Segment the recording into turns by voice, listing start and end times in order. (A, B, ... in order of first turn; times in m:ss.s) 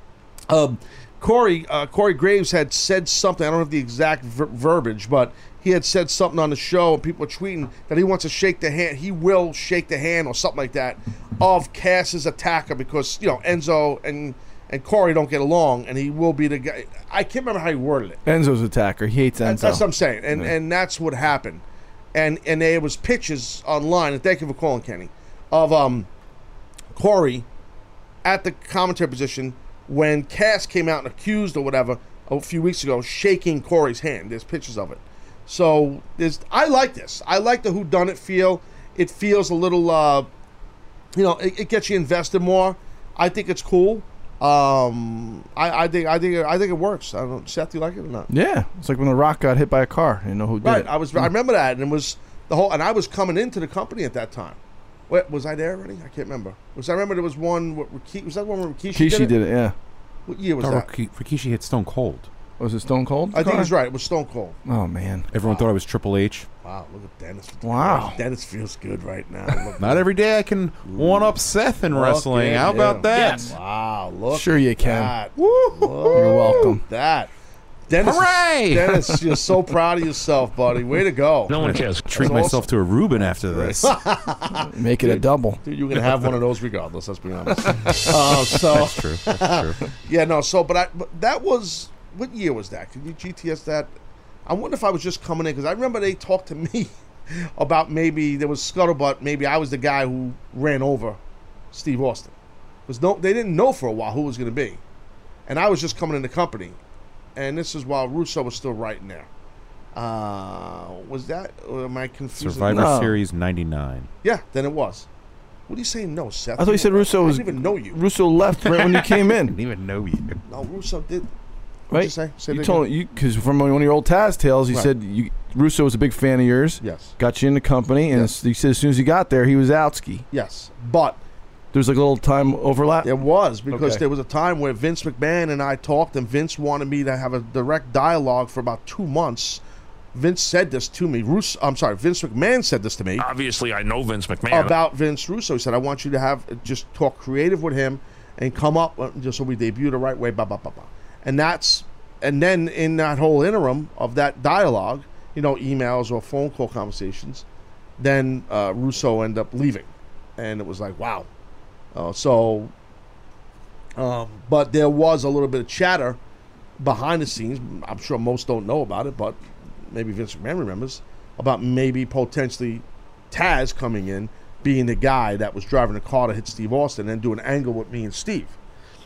0:00.5-0:18.2 A
0:18.3-0:20.5 B
0:19.4-0:26.1 A
0:27.0-0:27.5 A
0:28.2-0:40.3 A
0:41.1-0:48.3 A
0:48.3-0:51.3 B
0:50.6-0:59.4 A
0:58.9-0:59.8 B
1:00.3-1:00.9 A
1:00.6-1:02.3 C
1:02.6-1:03.7 B
1:03.3-1:04.6 A
1:04.7-1:05.3 B
1:05.3-1:06.5 C
1:05.4-1:05.7 A
1:06.6-1:10.1 A
1:07.6-1:08.2 B
1:09.8-1:13.5 C
1:10.8-1:11.4 A
1:11.9-1:17.3 A
1:12.7-1:13.0 B
1:13.1-1:13.5 D
1:14.3-1:16.8 B
1:16.1-1:16.7 C
1:17.9-1:21.6 A
1:18.0-1:19.5 C
1:21.5-1:22.1 D
1:21.5-1:24.0 C
1:22.1-1:33.9 A
1:24.7-1:25.6 B
1:28.5-1:29.8 C
1:34.5-1:41.2 A
1:41.7-1:42.4 A
1:42.9-1:44.8 A
1:45.5-1:46.8 A
1:47.4-1:49.3 A
1:49.9-1:52.9 A
1:52.4-1:54.1 C
1:52.7-1:53.2 B
1:54.2-1:55.1 A
1:55.7-1:58.0 A
1:56.6-1:59.6 B
1:58.8-2:00.4 C
2:00.5-2:01.3 A
2:01.9-2:10.2 B
2:01.9-2:02.9 A
2:06.8-2:07.2 A
2:10.3-2:11.2 A
2:11.7-2:13.1 B
2:13.0-2:19.6 A
2:13.7-2:14.0 B
2:20.1-2:23.3 A
2:23.2-2:24.8 D
2:24.5-2:37.4 A
2:38.0-2:41.3 A
2:41.9-2:42.7 A
2:44.0-2:46.2 A
2:46.8-2:58.6 A